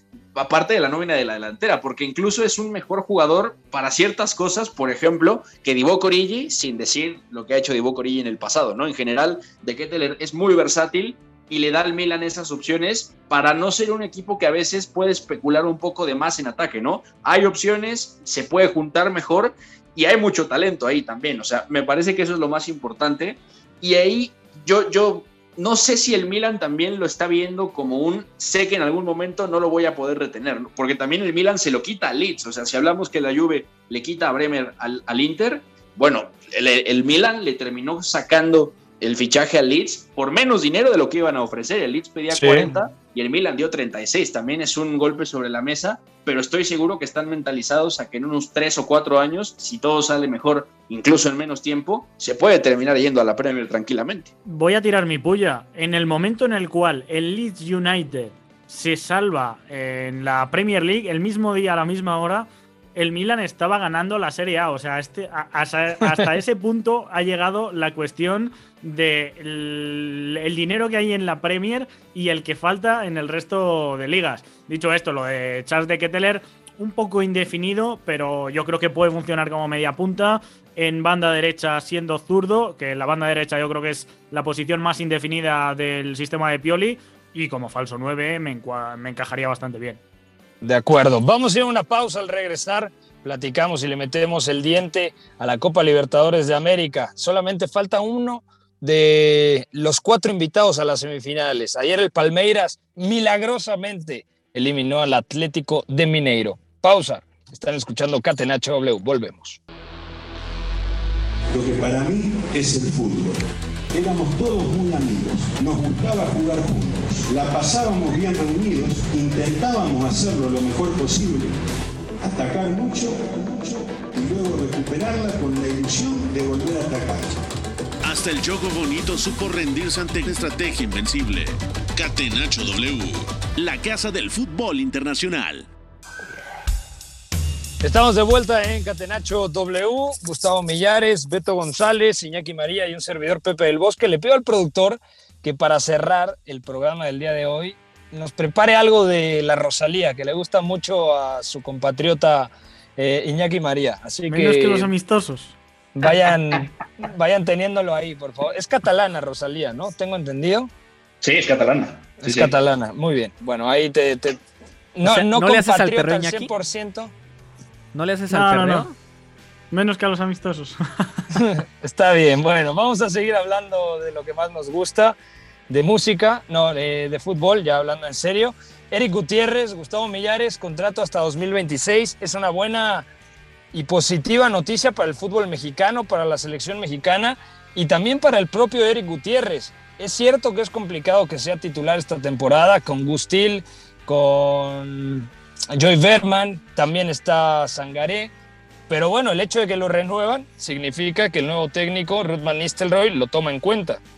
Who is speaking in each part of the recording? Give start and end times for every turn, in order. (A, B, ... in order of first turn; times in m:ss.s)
0:00.3-0:54.3 A
0:42.3-0:42.7 B
0:54.5-1:30.0 C
1:30.6-1:49.6 B
1:51.5-1:53.4 D
1:53.9-2:01.5 D
2:02.2-2:07.4 D
2:08.0-2:15.7 E
2:17.8-2:34.9 B
2:34.3-2:35.6 C
2:35.9-2:40.7 B
2:41.2-2:42.5 A
2:42.2-2:44.4 B
2:44.9-2:47.1 B
2:45.0-2:46.5 F
2:47.9-2:48.9 F
2:48.3-2:48.9 C
2:49.7-2:51.2 C
2:51.3-2:55.2 B
2:55.7-3:03.1 B
3:03.7-3:18.3 B
3:18.9-3:24.0 B